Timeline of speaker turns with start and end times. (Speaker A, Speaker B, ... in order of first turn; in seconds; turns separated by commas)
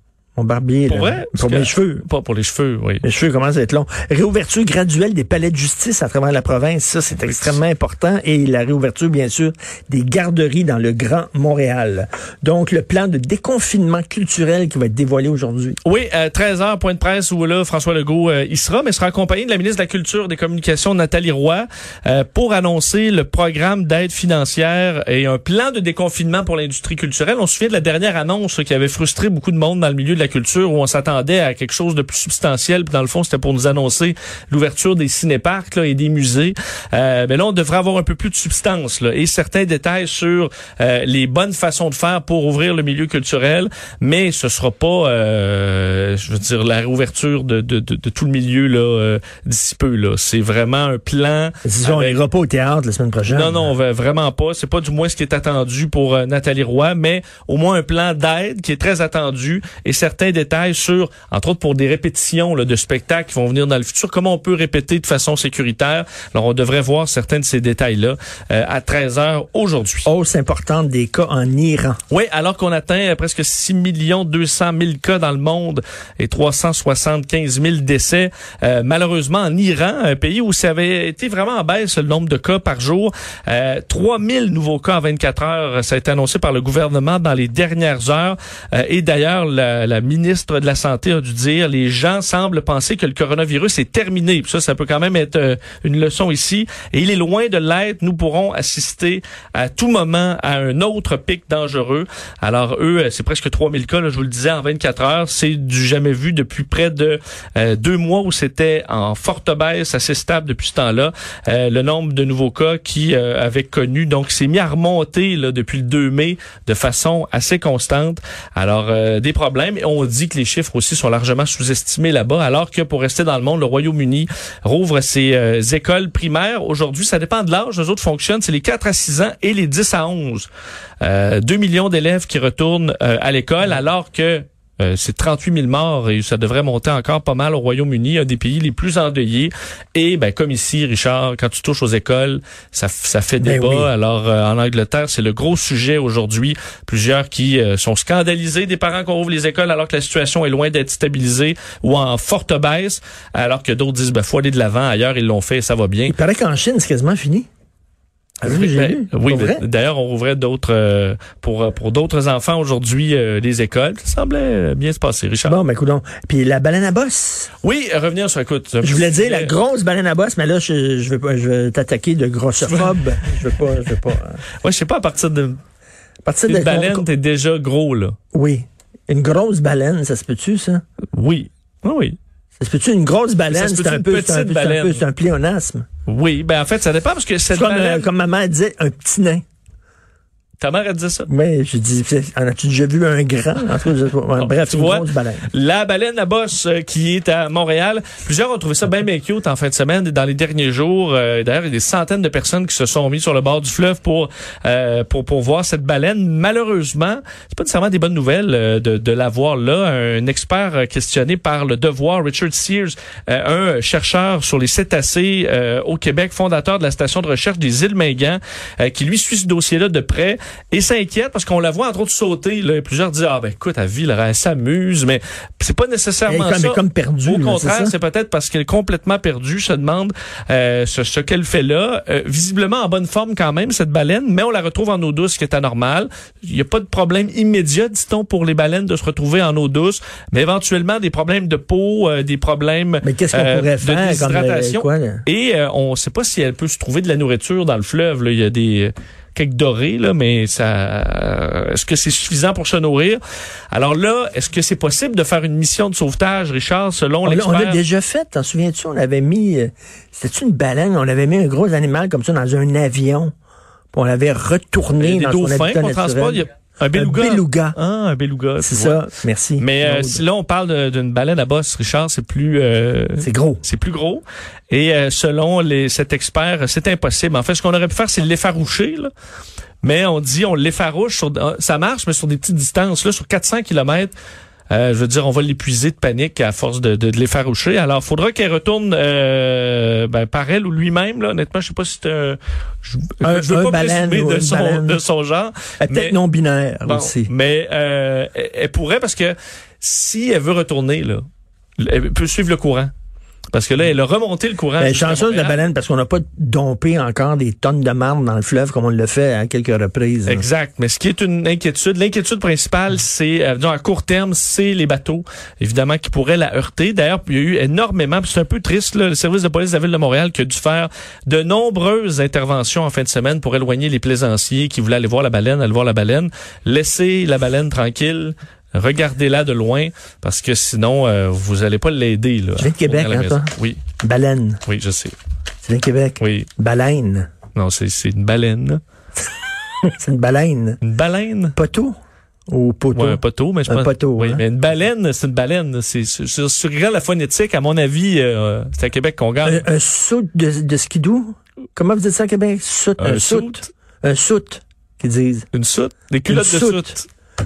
Speaker A: 0.4-2.1, Speaker B: 0.9-3.0, Speaker A: 3.0-15.8, Speaker B: 7.2-7.6, Speaker B: 15.8-52.2, Speaker A: 51.6-53.7, Speaker B: 53.3-70.1, Speaker A: 70.1-72.0, Speaker B: 72.1-130.5, Speaker B: 131.0-156.2, Speaker A: 143.4-143.9, Speaker A: 156.1-157.5, Speaker A: 158.4-159.6, Speaker B: 158.4-165.6, Speaker A: 165.4-167.5, Speaker B: 167.6-169.6, Speaker A: 168.8-174.4, Speaker B: 172.6-173.0, Speaker B: 174.6-175.6, Speaker A: 176.2-177.1, Speaker B: 176.5-178.2, Speaker A: 178.3-180.8, Speaker B: 181.1-182.2, Speaker A: 182.6-185.9, Speaker B: 183.5-185.0, Speaker B: 186.1-188.1, Speaker A: 187.5-189.4, Speaker B: 190.6-191.3, Speaker A: 191.3-195.5, Speaker B: 194.4-253.2, Speaker A: 226.3-227.9, Speaker A: 243.0-245.2, Speaker B: 253.7-257.8, Speaker A: 257.2-263.3, Speaker A: 263.9-267.8, Speaker B: 265.0-269.0, Speaker A: 268.6-270.2, Speaker B: 269.6-279.1, Speaker A: 273.2-273.6, Speaker B: 279.8-284.1, Speaker B: 284.7-296.2, Speaker A: 293.2-295.0, Speaker A: 295.8-297.3, Speaker B: 296.9-301.2, Speaker B: 301.8-302.9, Speaker B: 303.5-305.6, Speaker A: 304.8-310.4, Speaker B: 310.3-333.8, Speaker A: 332.6-334.6, Speaker B: 334.7-335.1, Speaker A: 335.6-337.3, Speaker B: 336.2-336.5, Speaker B: 337.6-338.8, Speaker A: 339.9-340.8, Speaker B: 340.8-341.6, Speaker A: 341.6-341.9, Speaker A: 342.5-344.4, Speaker B: 342.9-349.7, Speaker A: 349.4-355.5, Speaker B: 353.0-353.7, Speaker B: 355.5-357.1, Speaker A: 356.3-356.9